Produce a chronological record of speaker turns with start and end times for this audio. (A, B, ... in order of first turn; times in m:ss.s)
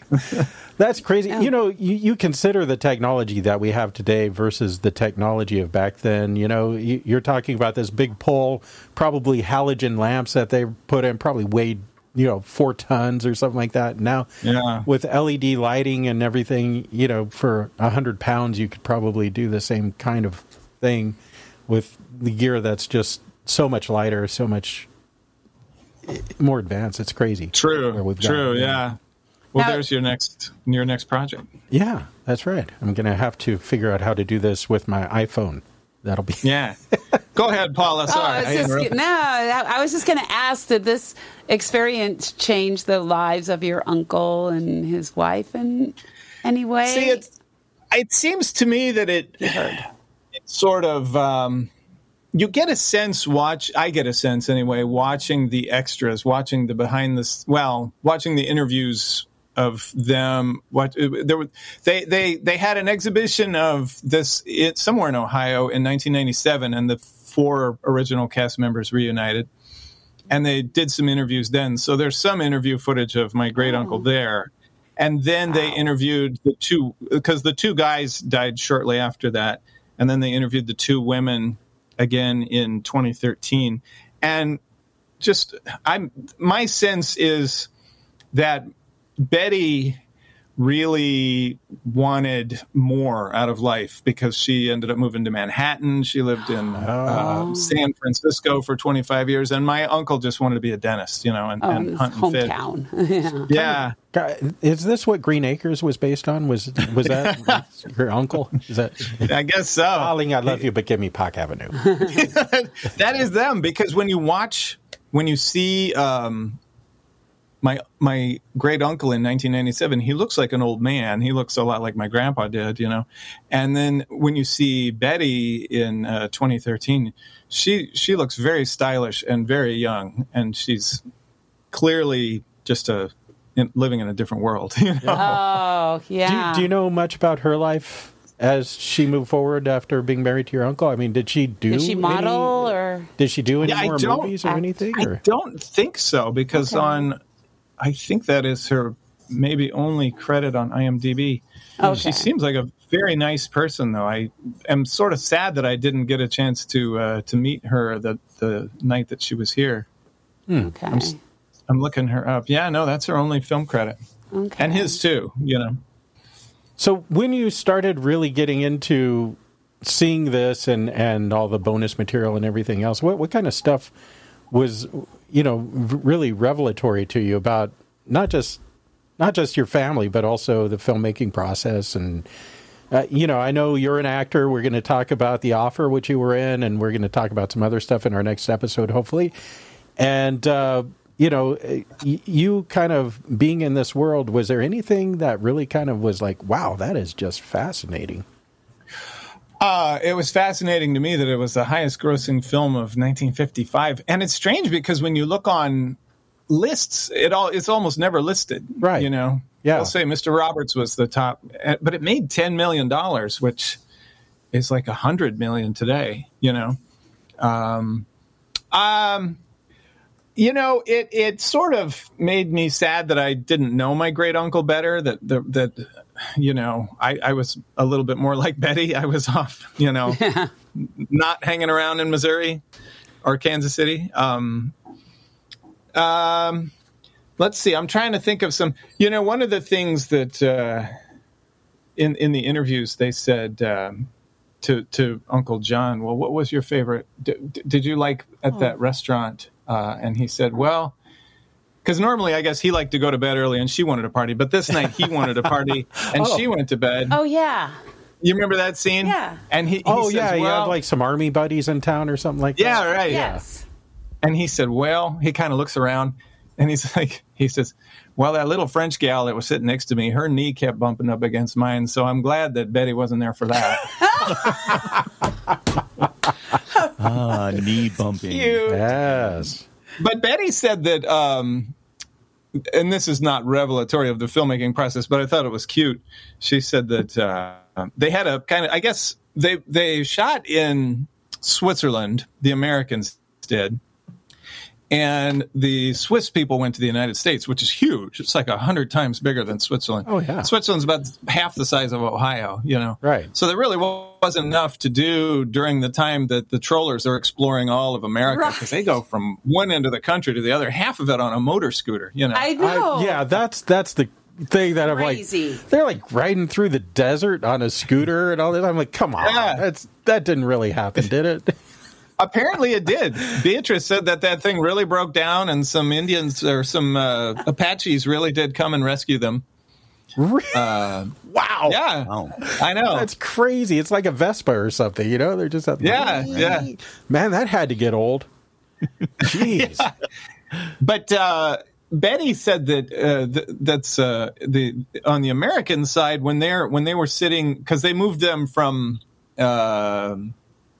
0:00.2-0:00.5 A
0:00.8-0:14.3 B
0:14.4-0:14.9 A
0:14.8-0:24.9 B
0:26.1-0:28.8 B
0:27.5-0:29.0 A
0:29.5-0:31.5 A
0:29.6-0:29.8 C
0:31.7-0:36.5 B
0:36.4-0:36.8 A
0:37.4-0:38.9 A
0:38.1-0:47.2 C
0:46.8-0:47.2 A
0:47.9-0:49.7 A
0:49.4-0:49.8 C
0:50.5-0:51.7 A
0:52.3-1:09.5 A
1:10.3-1:24.6 A
1:13.6-1:14.0 C
1:15.5-1:15.8 C
1:25.2-1:27.7 A
1:28.3-1:30.0 A
1:30.6-1:42.5 A
1:36.8-1:37.5 B
1:37.2-1:37.7 C
1:41.6-1:43.5 C
1:43.5-1:44.0 A
1:43.5-1:49.3 B
1:47.0-1:47.6 A
1:49.2-1:50.6 A
1:49.9-1:51.9 B
1:52.0-1:56.6 A
1:57.6-2:11.0 A
2:11.7-2:15.4 A
2:15.0-2:15.4 B
2:15.2-2:16.7 C
2:16.2-2:25.2 B
2:21.7-2:23.1 C
2:23.6-2:24.4 A
2:25.0-2:27.2 A
2:26.5-2:27.1 C
2:27.8-2:39.9 A
2:31.8-2:32.3 C
2:40.5-2:41.1 B
2:40.6-2:41.2 C
2:41.7-2:44.0 A
2:44.3-2:45.0 C
2:44.6-2:45.8 A
2:46.8-2:53.9 B
2:54.5-2:58.6 B
2:59.2-3:02.3 B
3:02.9-3:09.3 B
3:10.0-3:18.2 B
3:19.6-3:26.0 A
3:26.5-3:33.8 A
3:28.8-3:29.1 B
3:29.6-3:30.0 B
3:34.5-3:36.8 A
3:37.4-3:38.1 A
3:38.7-3:39.4 A
3:40.4-3:52.6 A
3:50.1-3:50.5 C
3:53.2-3:54.7 A
3:56.0-3:56.7 A
3:57.4-4:00.9 A
4:02.0-4:04.1 A
4:04.6-4:11.0 A
4:11.8-4:17.2 A
4:14.7-4:15.5 B
4:16.1-4:16.5 B
4:17.1-4:17.8 C
4:18.2-4:20.8 A
4:19.0-4:19.4 C
4:19.8-4:23.4 B
4:22.6-4:23.3 A
4:23.1-4:23.6 C
4:24.2-4:34.5 A
4:34.0-4:34.7 C
4:37.0-4:38.7 D
4:38.3-4:38.9 C
4:38.7-4:39.6 B
4:40.0-4:41.7 A
4:42.6-4:53.8 A
4:54.9-5:12.5 A
5:00.1-5:00.5 B
5:03.0-5:03.3 B
5:08.3-5:08.9 C
5:12.3-5:13.2 C
5:12.6-5:21.6 B
5:14.9-5:15.6 C
5:19.2-5:19.6 A
5:22.2-5:29.4 A
5:30.2-5:31.8 B
5:30.5-5:31.1 A
5:31.7-5:33.1 A
5:32.1-5:32.4 D
5:32.4-5:38.3 B
5:35.8-5:36.7 A
5:39.2-5:39.9 B
5:39.3-5:39.9 A
5:40.8-5:50.3 A